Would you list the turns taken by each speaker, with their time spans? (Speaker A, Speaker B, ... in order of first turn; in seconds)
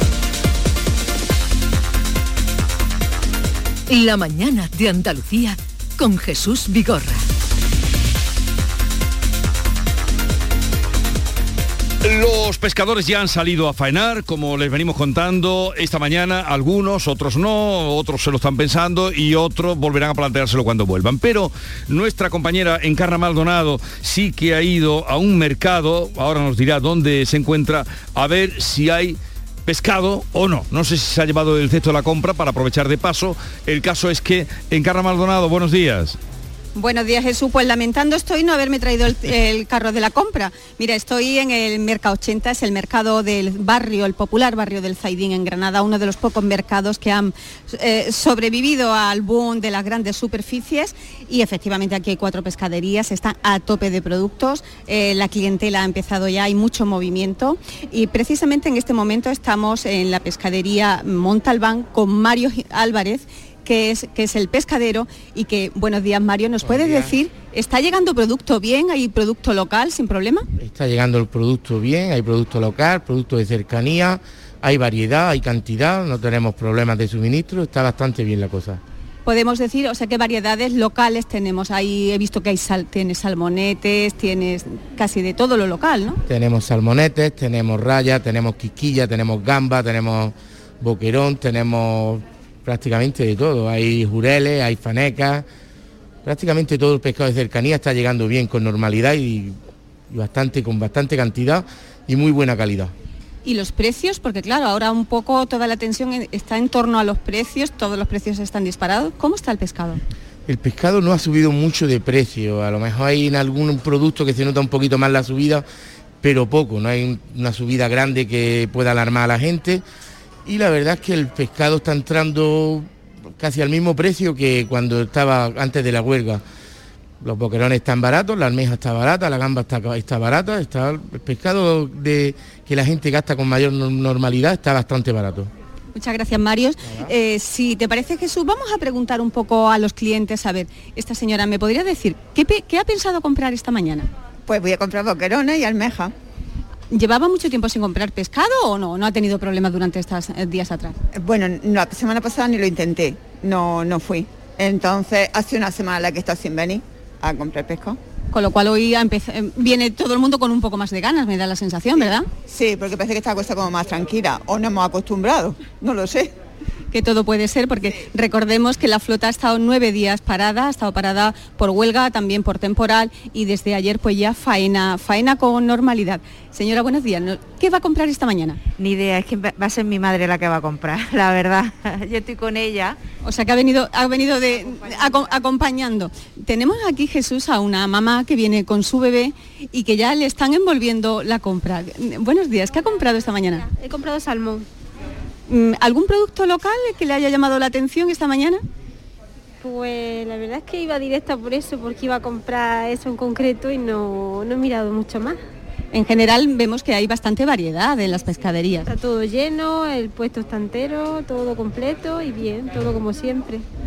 Speaker A: 3.9-7.2
Speaker B: 12.0-36.2
Speaker C: 36.7-70.4, 79.2-86.2, 103.4-110.0, 135.9-144.1, 146.9-151.0, 158.3-162.3, 166.9-178.6, 183.2-193.7, 195.5-198.6, 205.9-208.9
Speaker D: 66.6-67.1, 70.6-78.8, 86.3-95.4, 96.2-99.6, 100.1-102.9, 110.5-115.6, 116.2-119.8, 120.5-126.4, 127.2-135.5
Speaker E: 144.5-146.1, 151.1-158.0, 162.5-166.3
Speaker F: 178.8-183.0
Speaker G: 193.7-194.7, 199.6-205.4, 208.8-213.6